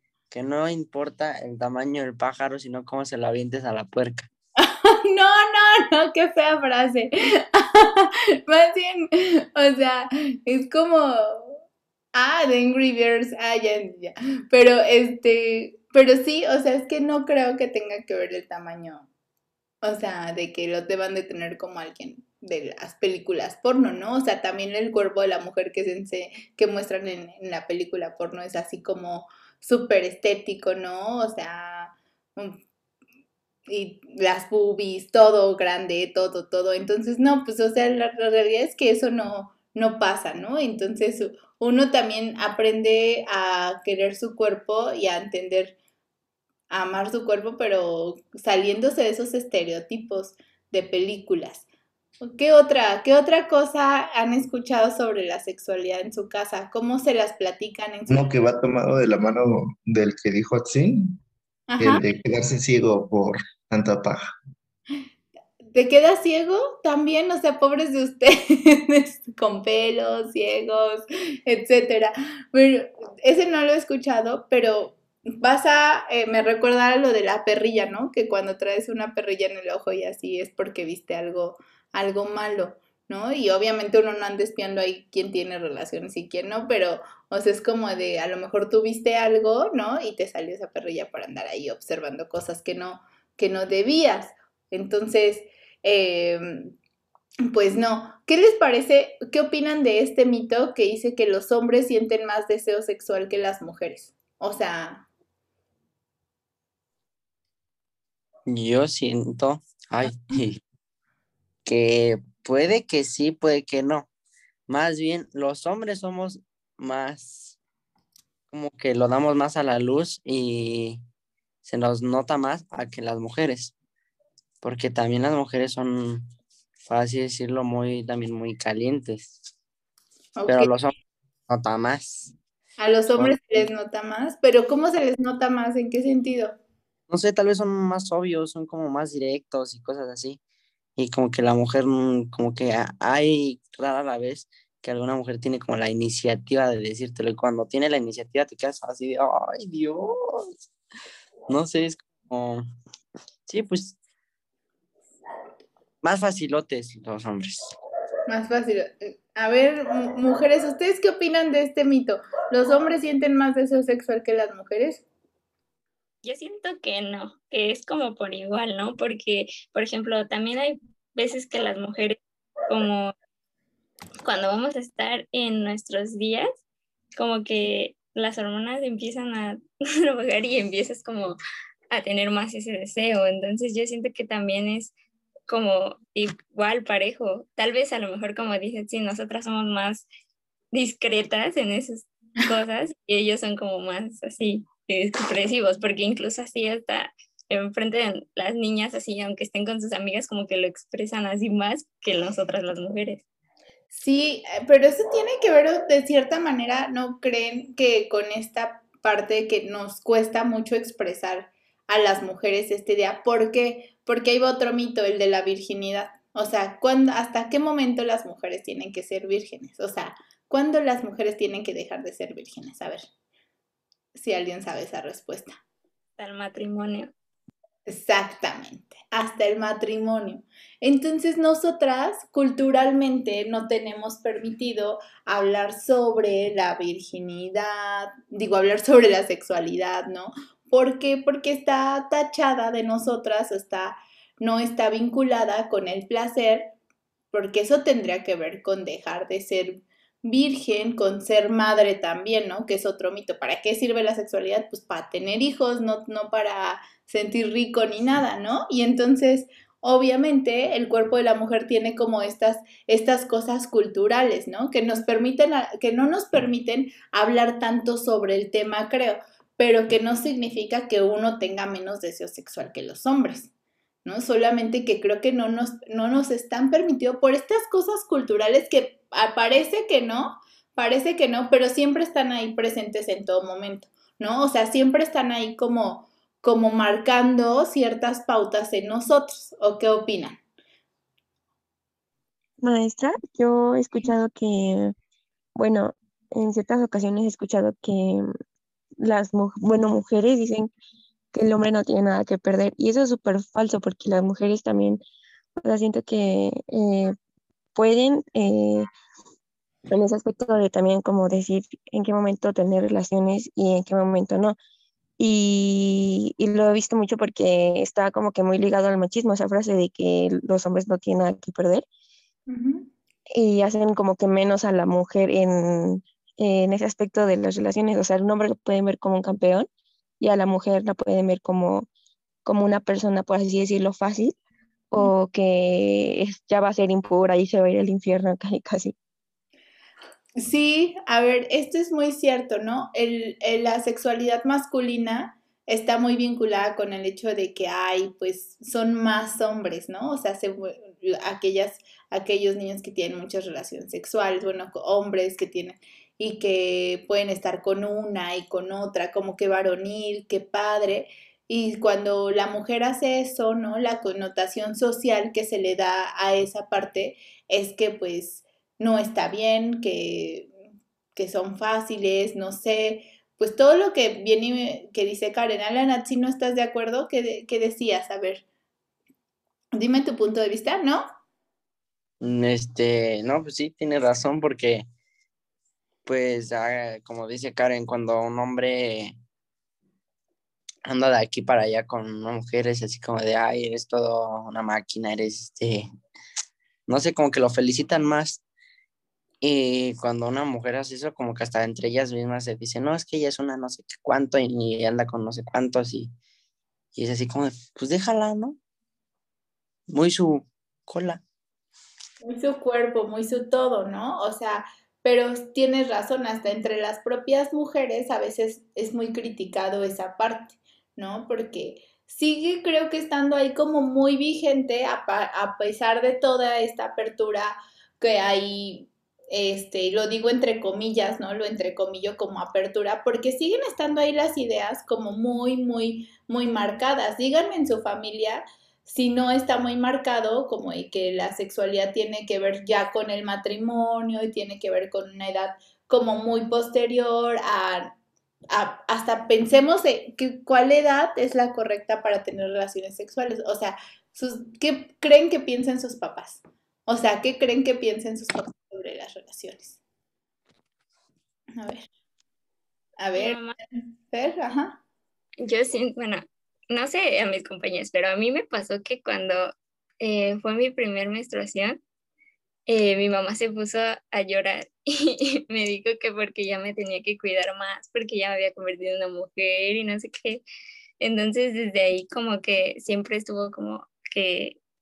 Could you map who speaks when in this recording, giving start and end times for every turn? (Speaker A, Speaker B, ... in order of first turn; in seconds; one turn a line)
Speaker A: 0.3-4.3
Speaker B: 4.6-11.6
Speaker B: 12.2-19.1
Speaker B: 19.8-32.6
Speaker B: 33.7-45.8
Speaker B: 46.7-51.6
Speaker B: 52.2-58.3
Speaker C: 58.1-61.1
Speaker B: 61.7-62.0
Speaker C: 61.8-64.2
Speaker B: 65.7-96.7
Speaker B: 97.5-105.1
Speaker A: 108.5-110.6
Speaker A: 111.7-114.1
Speaker A: 114.7-117.6
Speaker A: 118.5-121.0
Speaker A: 121.7-123.7
Speaker A: 124.6-126.3
Speaker A: 126.9-129.4
Speaker B: 130.4-130.7
Speaker A: 130.5-130.9
Speaker A: 131.5-132.3
Speaker B: 132.8-136.6
Speaker A: 133.2-133.6
Speaker A: 137.1-140.4
Speaker A: 141.0-150.6
Speaker A: 151.5-152.7
Speaker A: 153.5-154.0
Speaker A: 156.0-157.7
Speaker B: 158.3-165.0
Speaker D: 166.2-173.1
Speaker D: 174.2-176.5
Speaker D: 177.2-181.4
Speaker D: 181.9-184.9
Speaker D: 185.5-190.1
Speaker D: 190.7-203.2
Speaker B: 203.9-223.1
Speaker B: 224.2-225.6
Speaker D: 226.2-227.1
Speaker B: 227.9-246.7
Speaker B: 247.3-273.5
Speaker B: 274.1-290.4
Speaker E: 292.6-294.9
Speaker E: 295.6-298.3
Speaker E: 299.0-300.7
Speaker E: 301.3-305.0
Speaker E: 305.6-307.2
Speaker E: 307.8-308.9
Speaker E: 309.9-314.6
Speaker E: 315.2-321.9
Speaker B: 322.5-322.9
Speaker E: 323.4-329.7
Speaker E: 330.2-331.9
Speaker E: 332.5-334.4
Speaker E: 334.9-338.9
Speaker B: 340.4-370.5
Speaker B: 371.2-378.4
Speaker B: 379.8-381.1
Speaker A: 382.2-384.9
Speaker A: 386.1-389.1
Speaker A: 390.9-395.9
Speaker A: 396.9-398.4
Speaker A: 399.4-406.1
Speaker A: 406.9-408.6
Speaker A: 409.9-411.2
Speaker B: 412.2-447.9
Speaker B: 448.5-459.8
Speaker B: 461.6-461.9
Speaker B: 463.0-464.8
Speaker D: 463.2-463.6
Speaker D: 465.4-469.5
Speaker D: 470.0-471.8
Speaker D: 472.7-480.4
Speaker D: 481.0-484.6